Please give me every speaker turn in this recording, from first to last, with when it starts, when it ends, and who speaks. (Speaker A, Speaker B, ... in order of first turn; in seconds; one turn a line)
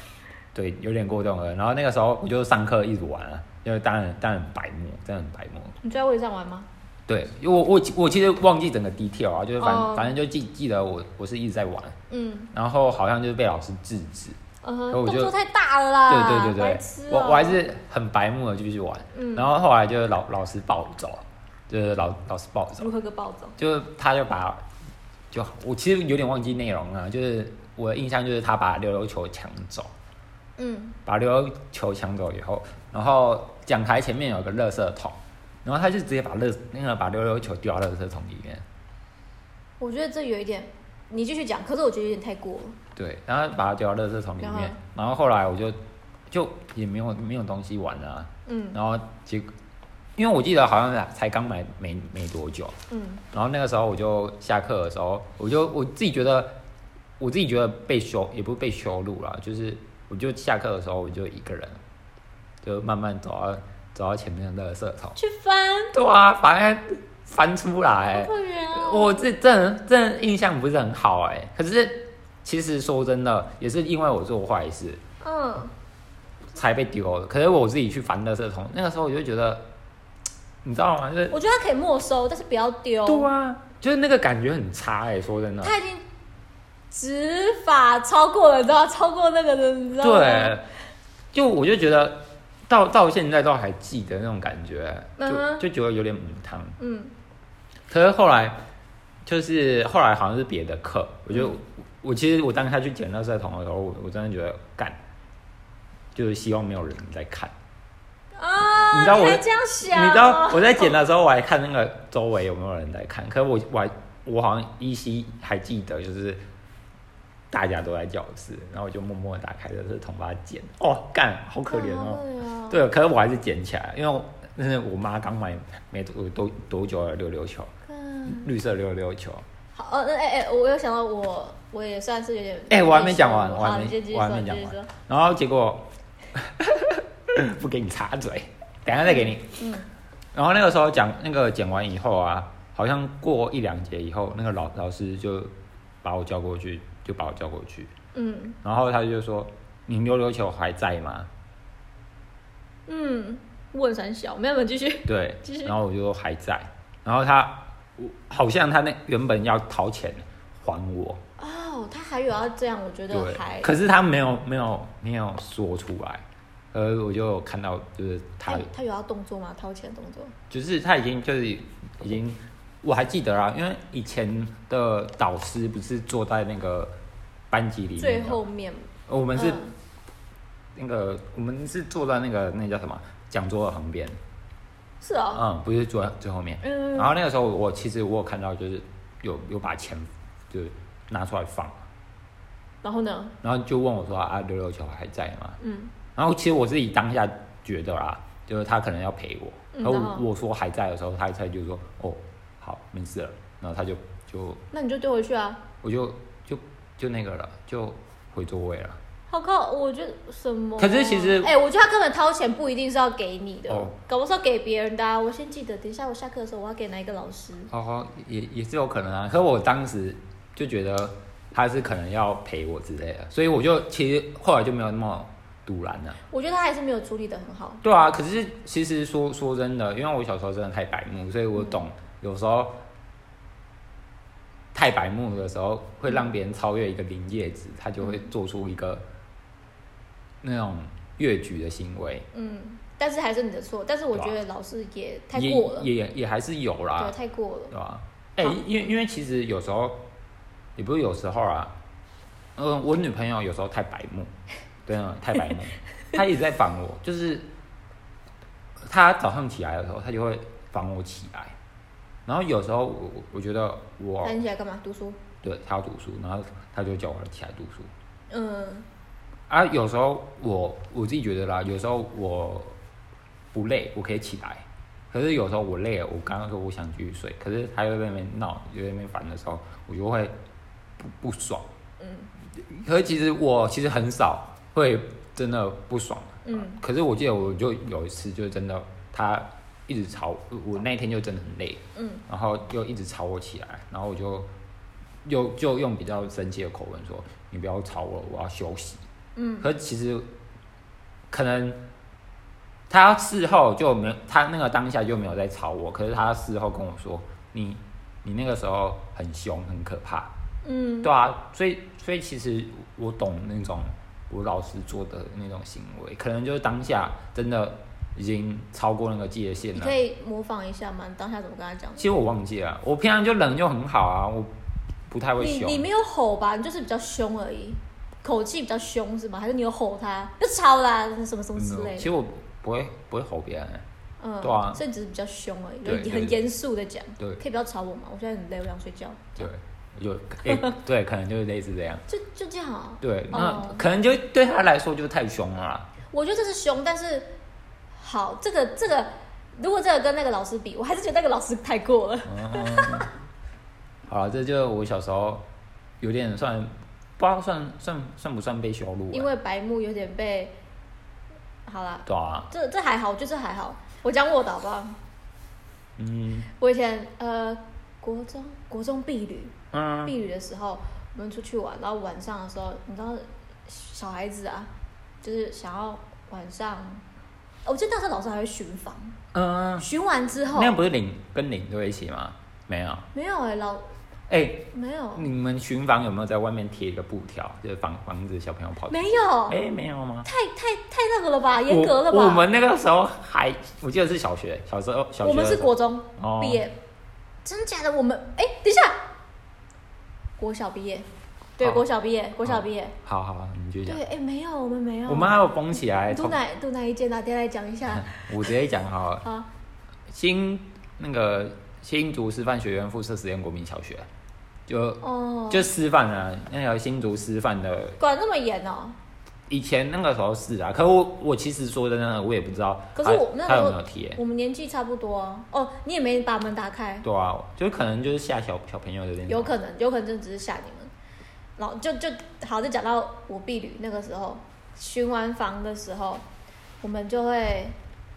Speaker A: 0.5-5.8
Speaker B: 5.8-6.7
Speaker A: 7.1-12.0
Speaker B: 9.6-10.1
Speaker B: 12.1-12.5
Speaker A: 12.5-14.4
Speaker B: 14.6-17.6
Speaker A: 14.9-15.3
Speaker A: 16.1-22.9
Speaker B: 19.1-19.5
Speaker B: 22.8-23.6
Speaker A: 23.6-24.6
Speaker A: 25.3-29.9
Speaker B: 30.6-31.0
Speaker A: 31.1-38.6
Speaker B: 39.8-42.8
Speaker A: 43.0-45.8
Speaker B: 44.4-44.8
Speaker A: 46.3-49.5
Speaker B: 48.5-48.8
Speaker A: 50.2-52.8
Speaker B: 52.9-53.2
Speaker A: 53.3-56.6
Speaker A: 57.2-61.8
Speaker A: 62.6-65.2
Speaker B: 65.2-66.0
Speaker A: 65.9-75.0
Speaker B: 68.1-69.3
Speaker B: 75.2-75.7
Speaker A: 76.5-79.7
Speaker A: 80.6-81.4
Speaker B: 81.3-83.3
Speaker A: 83.1-85.8
Speaker B: 85.6-86.0
Speaker B: 86.9-90.6
Speaker A: 90.0-90.7
Speaker A: 91.3-96.8
Speaker B: 95.2-95.6
Speaker B: 96.8-97.1
Speaker A: 97.9-98.6
Speaker A: 99.2-105.0
Speaker A: 106.2-107.5
Speaker B: 108.4-110.9
Speaker A: 108.9-116.4
Speaker A: 117.5-127.7
Speaker B: 121.7-122.8
Speaker B: 127.9-128.5
Speaker A: 128.3-129.4
Speaker B: 129.8-134.9
Speaker A: 132.7-139.7
Speaker B: 139.0-139.9
Speaker A: 140.3-147.9
Speaker B: 148.2-148.6
Speaker A: 148.6-151.3
Speaker B: 152.9-155.7
Speaker A: 155.1-161.2
Speaker B: 161.4-163.7
Speaker A: 163.1-168.7
Speaker B: 168.5-170.3
Speaker A: 170.5-176.9
Speaker A: 177.5-178.4
Speaker B: 178.0-179.7
Speaker A: 179.1-179.6
Speaker A: 180.8-184.2
Speaker B: 185.0-185.4
Speaker A: 185.3-191.8
Speaker B: 186.6-187.1
Speaker B: 192.8-193.3
Speaker A: 193.4-195.6
Speaker B: 195.6-195.9
Speaker A: 196.2-204.6
Speaker B: 199.7-200.2
Speaker B: 204.7-205.7
Speaker A: 205.8-209.0
Speaker B: 209.3-217.7
Speaker A: 210.8-211.5
Speaker A: 213.7-213.9
Speaker A: 217.7-226.2
Speaker B: 226.3-227.8
Speaker A: 227.8-232.8
Speaker A: 234.7-239.1
Speaker A: 240.4-242.3
Speaker B: 242.3-245.9
Speaker A: 245.3-247.2
Speaker B: 247.0-247.7
Speaker A: 247.7-250.0
Speaker A: 250.8-251.8
Speaker A: 252.6-254.3
Speaker A: 254.8-257.5
Speaker A: 258.9-261.6
Speaker A: 262.3-264.4
Speaker B: 264.2-265.2
Speaker A: 265.4-267.9
Speaker B: 268.3-268.9
Speaker A: 269.5-272.8
Speaker A: 273.5-280.4
Speaker A: 281.0-281.7
Speaker B: 282.0-282.3
Speaker A: 282.5-294.5
Speaker B: 286.4-286.8
Speaker B: 292.0-292.2
Speaker A: 295.2-299.0
Speaker B: 299.4-299.7
Speaker A: 299.6-300.3
Speaker A: 301.3-301.8
Speaker A: 302.9-310.3
Speaker B: 310.6-311.1
Speaker A: 311.0-320.0
Speaker B: 319.8-322.1
Speaker A: 322.0-324.5
Speaker A: 325.1-325.9
Speaker B: 325.4-332.1
Speaker A: 331.6-333.9
Speaker B: 334.2-339.5
Speaker A: 334.4-334.8
Speaker A: 335.8-336.4
Speaker A: 339.4-342.0
Speaker B: 340.5-340.7
Speaker B: 342.1-343.9
Speaker A: 343.0-345.9
Speaker B: 346.1-347.4
Speaker B: 348.0-353.1
Speaker A: 352.3-353.1
Speaker A: 354.1-355.4
Speaker A: 356.0-359.3
Speaker B: 359.1-360.6
Speaker B: 361.7-365.0
Speaker A: 362.1-362.5
Speaker A: 366.0-366.5
Speaker B: 366.6-374.7
Speaker A: 369.7-370.1
Speaker B: 375.2-377.0
Speaker B: 377.6-379.2
Speaker A: 379.3-379.9
Speaker B: 379.8-380.8
Speaker A: 380.5-383.1
Speaker B: 383.1-383.9
Speaker A: 384.3-390.3
Speaker B: 384.7-385.3
Speaker B: 388.9-389.6
Speaker B: 390.2-392.5
Speaker A: 391.7-396.6
Speaker B: 395.2-396.8
Speaker B: 397.4-399.0
Speaker B: 400.4-401.1
Speaker B: 401.6-403.0
Speaker A: 401.6-401.9
Speaker A: 402.4-404.0
Speaker B: 403.9-405.5
Speaker A: 405.1-406.4
Speaker B: 406.1-408.3
Speaker A: 407.9-409.3
Speaker A: 410.1-414.1
Speaker A: 414.7-418.0
Speaker B: 415.0-415.7
Speaker B: 418.0-419.0
Speaker A: 419.5-424.2
Speaker B: 423.0-427.1
Speaker A: 427.0-429.5
Speaker B: 429.3-430.9
Speaker B: 431.6-436.2
Speaker B: 436.8-437.8